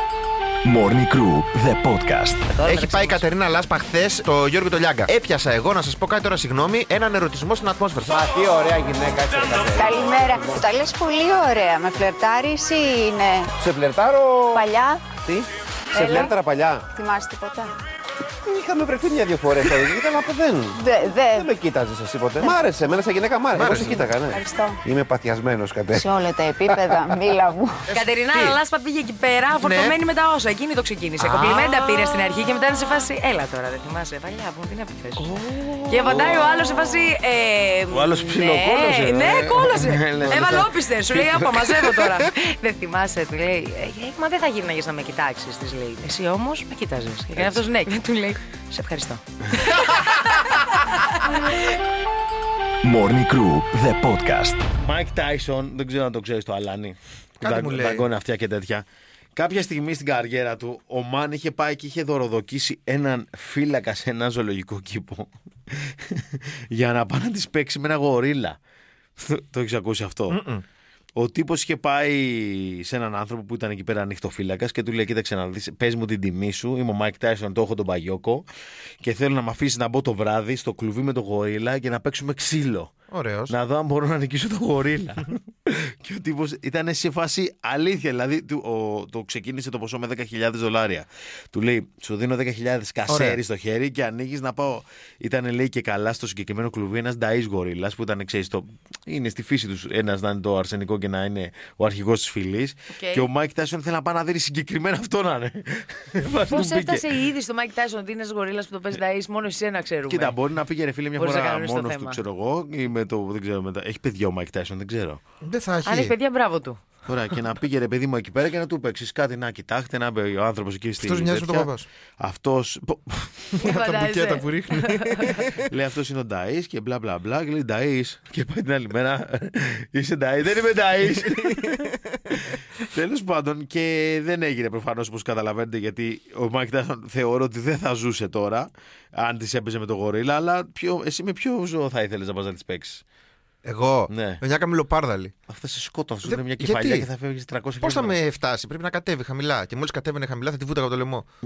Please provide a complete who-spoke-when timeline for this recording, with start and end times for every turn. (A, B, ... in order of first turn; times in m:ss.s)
0:00.6-0:02.5 A
0:02.5-0:03.3 B
0:02.6-0:08.3 C
0:08.1-0:10.6 D
0:09.7-0:13.5 E
0:13.6-0:16.9 D
0:14.5-0:15.2 E
0:15.9-0:16.3 E
0:16.9-0:17.7 E
0:18.4-0:26.1 D
0:20.8-0:21.5 E
0:23.5-0:24.1 C
0:23.6-0:24.8 E
0:25.9-0:27.8 E
0:26.7-0:27.1 D
0:27.9-0:28.6 C
0:27.9-0:35.3 B
0:29.6-0:30.0 C
0:31.2-0:32.2 C
0:35.2-0:37.0 F
0:35.9-0:51.6 B
0:37.9-0:42.2 F
0:47.4-0:47.7 F
0:52.8-0:54.6 A
0:54.8-0:58.8 F
0:57.4-0:58.0 C
0:59.4-1:08.6 F
1:09.2-1:10.4 F
1:10.3-1:10.6 C
1:11.2-1:18.4 F
1:19.0-1:22.9 F
1:23.1-1:23.5 C
1:23.5-1:47.0 F
1:33.1-1:33.4 C
1:42.9-1:43.3 B
1:46.5-1:50.4 B
1:50.1-1:55.2 F
1:51.2-1:52.2 B
1:55.4-1:56.1 C
1:55.8-1:56.8 B
1:57.0-2:03.6 F
2:01.0-2:01.9 C
2:03.6-2:05.6 C
2:03.6-2:05.4 B
2:05.6-2:23.0 F
2:11.0-2:12.4 C
2:23.6-2:25.3 C
2:24.1-2:24.4 F
2:25.5-2:28.2 F
2:26.2-2:27.1 C
2:27.8-2:31.3 C